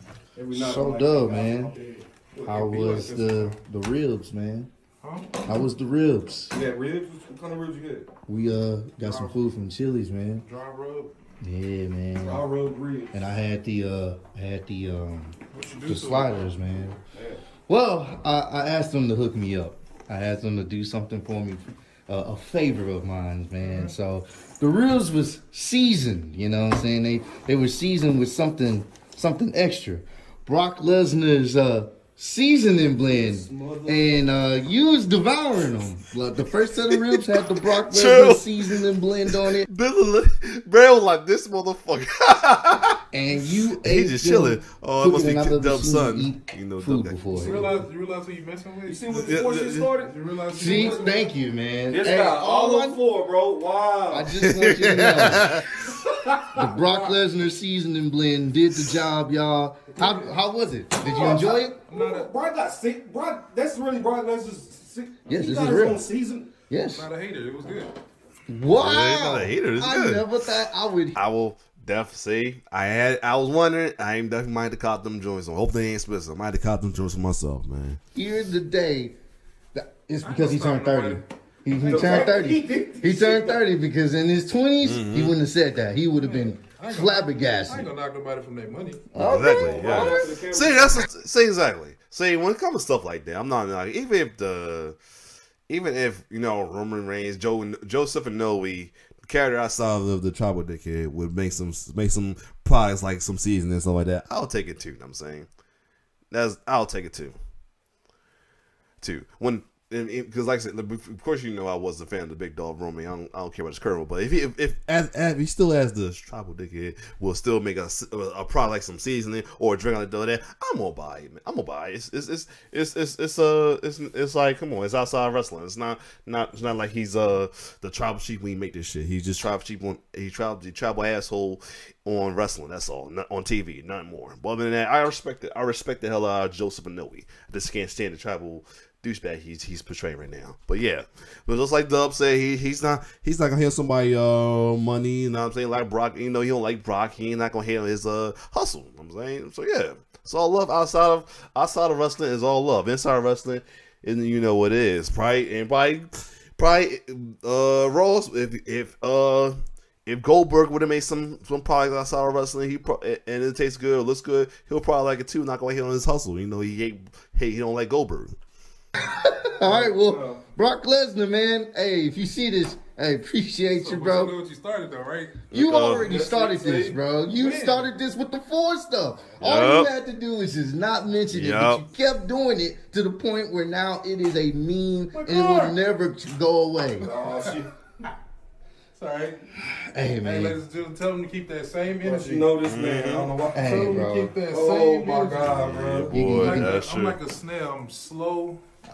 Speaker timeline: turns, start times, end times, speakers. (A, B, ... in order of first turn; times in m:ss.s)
0:00.3-0:03.5 A
0:00.5-0:01.7 B
0:02.4-0:04.7 B
0:05.0-0:05.4 C
0:05.4-0:06.5 B
0:06.5-0:08.1 A
0:08.3-0:10.4 B
0:09.0-0:09.5 C
0:10.4-0:11.1 C
0:11.4-0:12.5 B
0:12.2-0:13.3 A
0:13.1-0:17.0 B
0:15.5-0:16.5 C
0:17.1-0:17.4 A
0:17.7-0:39.7 B
0:23.6-0:23.9 C
0:33.0-0:34.1 A
0:36.9-0:38.6 D
0:39.3-0:43.0 D
0:43.1-0:47.7 B
0:43.8-0:47.2 D
0:47.3-0:49.4 C
0:48.8-0:51.2 A
0:49.1-0:49.9 D
0:50.0-0:51.3 C
0:50.5-0:53.0 B
0:51.9-0:54.4 A
0:54.1-0:55.6 B
0:54.4-0:55.6 D
0:55.8-0:57.1 A
0:56.5-1:01.8 B
1:00.0-1:00.2 A
1:01.0-1:06.5 A
1:01.9-1:02.3 C
1:05.2-1:06.0 B
1:06.7-1:07.1 B
1:06.9-1:07.9 C
1:08.5-1:11.2 B
1:08.7-1:10.3 D
1:11.1-1:18.0 D
1:18.1-1:19.2 B
1:19.7-1:27.9 B
1:20.2-1:21.2 C
1:21.7-1:23.6 A
1:24.8-1:25.3 D
1:26.2-1:29.0 C
1:29.1-1:30.2 B
1:29.1-1:35.0 D
1:29.2-1:31.0 A
1:35.7-1:45.5 D
1:46.3-1:47.4 D
1:49.0-2:48.3 D
2:49.0-2:54.3 B
2:49.6-2:50.4 A
2:53.8-2:55.4 C
2:55.5-2:56.1 D
2:55.5-3:07.1 B
2:56.0-2:57.0 A
2:57.3-2:57.9 C
2:59.4-2:59.9 D
3:01.3-3:01.8 D
3:05.1-3:05.8 C
3:07.0-3:07.7 A
3:09.0-3:09.4 C
3:09.6-3:10.6 B
3:10.2-3:12.5 C
3:12.0-3:13.6 A
3:12.6-3:13.3 D
3:13.5-3:14.3 B
3:13.6-3:15.6 C
3:14.5-3:16.1 A
3:15.4-3:17.2 D
3:16.1-3:16.7 B
3:16.2-3:18.6 C